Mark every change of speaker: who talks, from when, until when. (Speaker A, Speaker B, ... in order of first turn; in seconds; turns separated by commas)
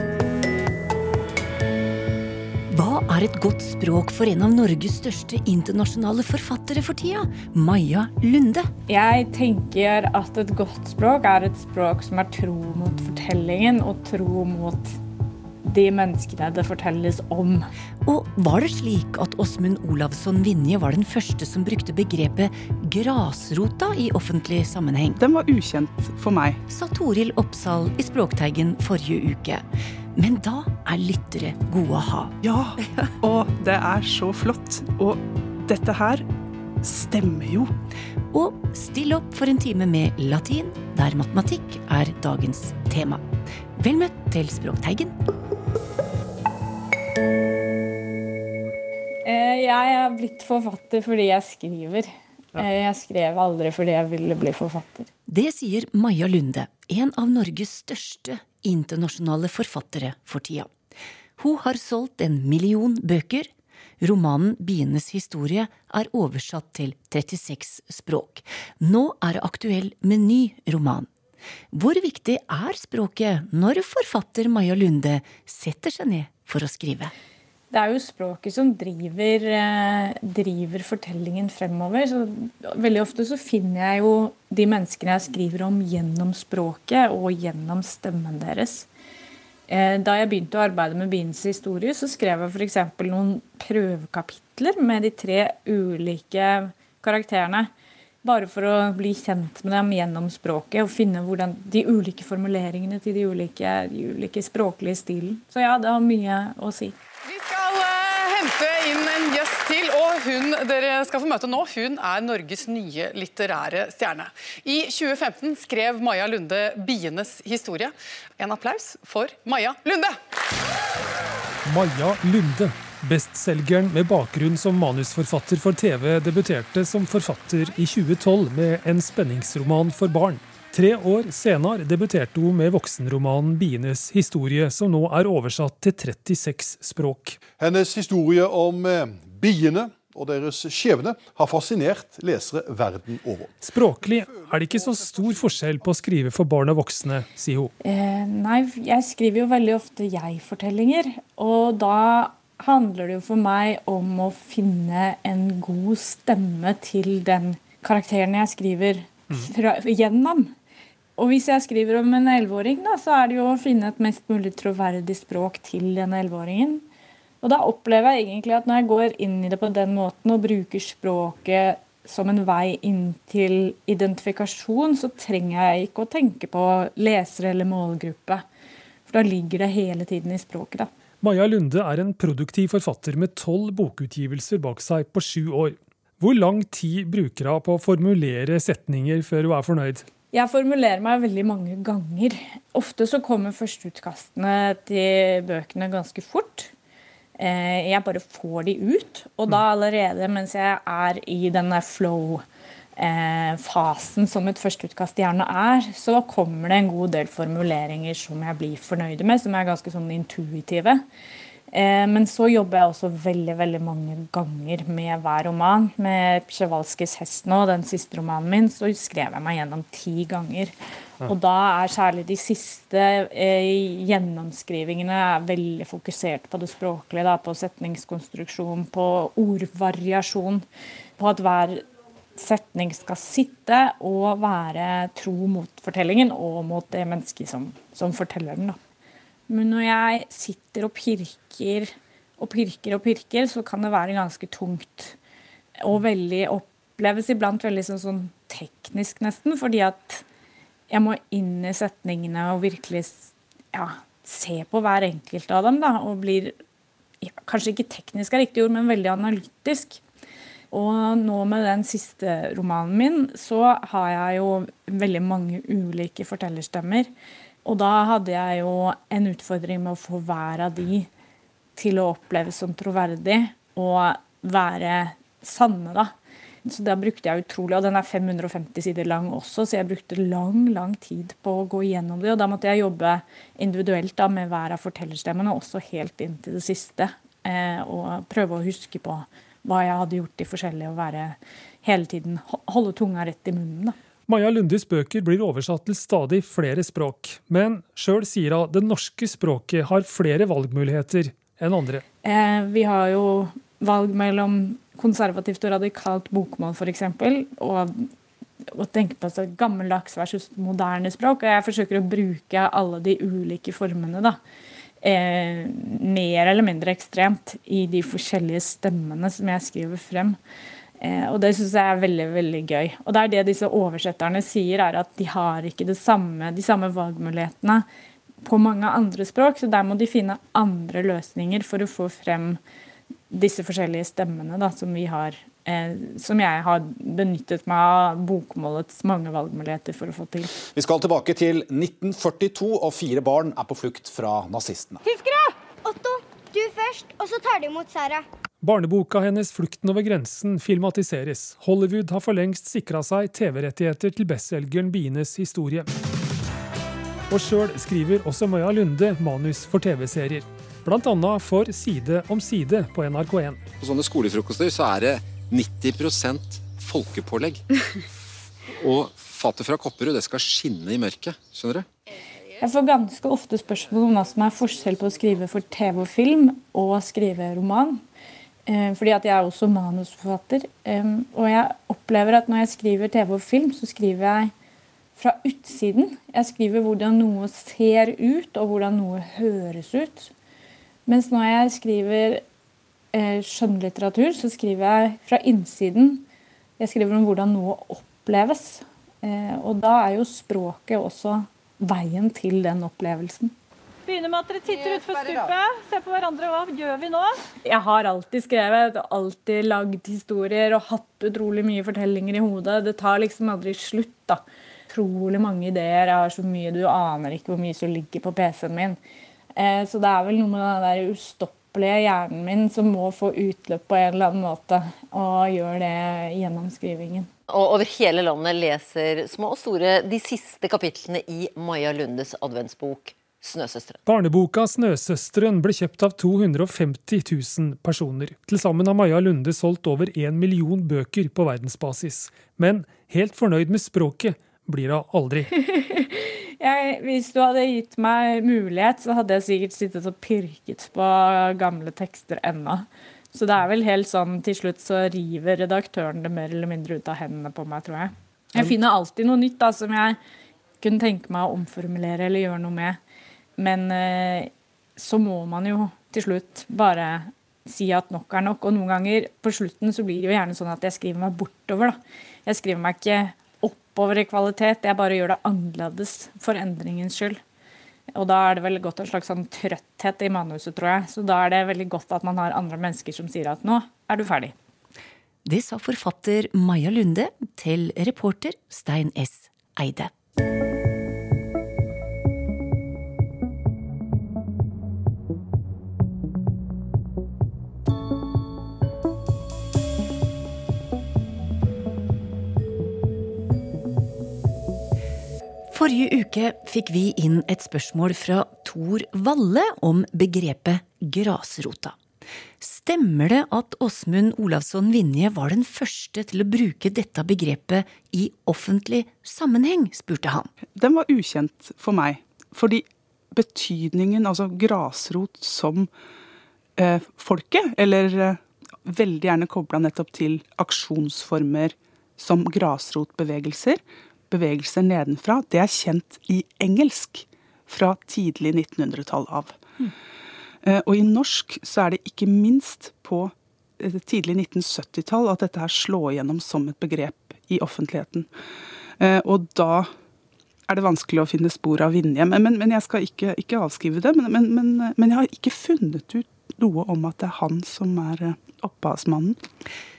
Speaker A: 2.7-8.7, Speaker B: 8.9-15.0, Speaker B: 15.6-17.7, Speaker A: 18.1-25.2, Speaker C: 25.2-26.6, Speaker A: 26.7-29.6, Speaker A: 30.1-32.3, Speaker C: 32.4-36.2, Speaker C: 36.8-37.7, Speaker A: 38.3-43.2, Speaker A: 43.8-45.1, Speaker B: 49.2-55.1, Speaker A: 55.3-60.7, Speaker A: 61.4-71.1, Speaker A: 71.7-77.1, Speaker B: 77.7-88.9, Speaker B: 89.7-97.7, Speaker B: 98.2-106.9, Speaker D: 107.2-120.2, Speaker E: 121.7-137.4, Speaker F: 137.6-143.6, Speaker E: 143.6-147.7, Speaker B: 147.8-160.5, Speaker B: 161.2-166.8, Speaker B: 167.4-178.4, Speaker B: 179.1-180.9, Speaker E: 181.2-190.1, Speaker B: 190.3-196.7, Speaker B: 197.4-202.4, Speaker B: 203.0-211.0, Speaker B: 211.7-230.6, Speaker B: 231.2-231.8, Speaker B: 232.4-238.8, Speaker B: 239.5-245.2, Speaker B: 245.8-250.2, Speaker B: 250.9-256.6, Speaker B: 257.2-260.0, Speaker B: 260.7-267.1, Speaker B: 267.6-271.1, Speaker B: 271.8-276.1, Speaker B: 276.6-293.9, Speaker E: 294.3-302.0, Speaker B: 302.2-308.1, Speaker B: 308.7-314.4, Speaker B: 315.0-320.4, Speaker B: 321.0-327.9, Speaker B: 328.4-332.6, Speaker B: 333.3-340.5, Speaker G: 340.7-345.0, Speaker H: 345.0-348.2, Speaker E: 348.6-355.9, Speaker E: 357.3-363.6, Speaker I: 363.8-367.6, Speaker I: 368.7-371.9, Speaker B: 372.6-378.0, Speaker B: 378.7-384.5, Speaker B: 385.1-390.3, Speaker B: 391.1-392.4, Speaker B: 393.1-396.2, Speaker B: 396.8-403.5, Speaker J: 404.1-407.4, Speaker B: 407.6-419.0, Speaker B: 419.6-427.3, Speaker K: 427.5-434.0, Speaker E: 434.1-445.5, Speaker B: 445.6-460.2, Speaker B: 460.8-463.0, Speaker B: 463.6-477.4, Speaker B: 478.1-484.5, Speaker A: 485.4-490.1, Speaker A: 505.7-512.0, Speaker A: 512.6-520.5, Speaker C: 520.8-525.9, Speaker C: 526.8-539.6, Speaker C: 540.6-548.3, Speaker C: 549.0-549.9, Speaker C: 550.7-559.4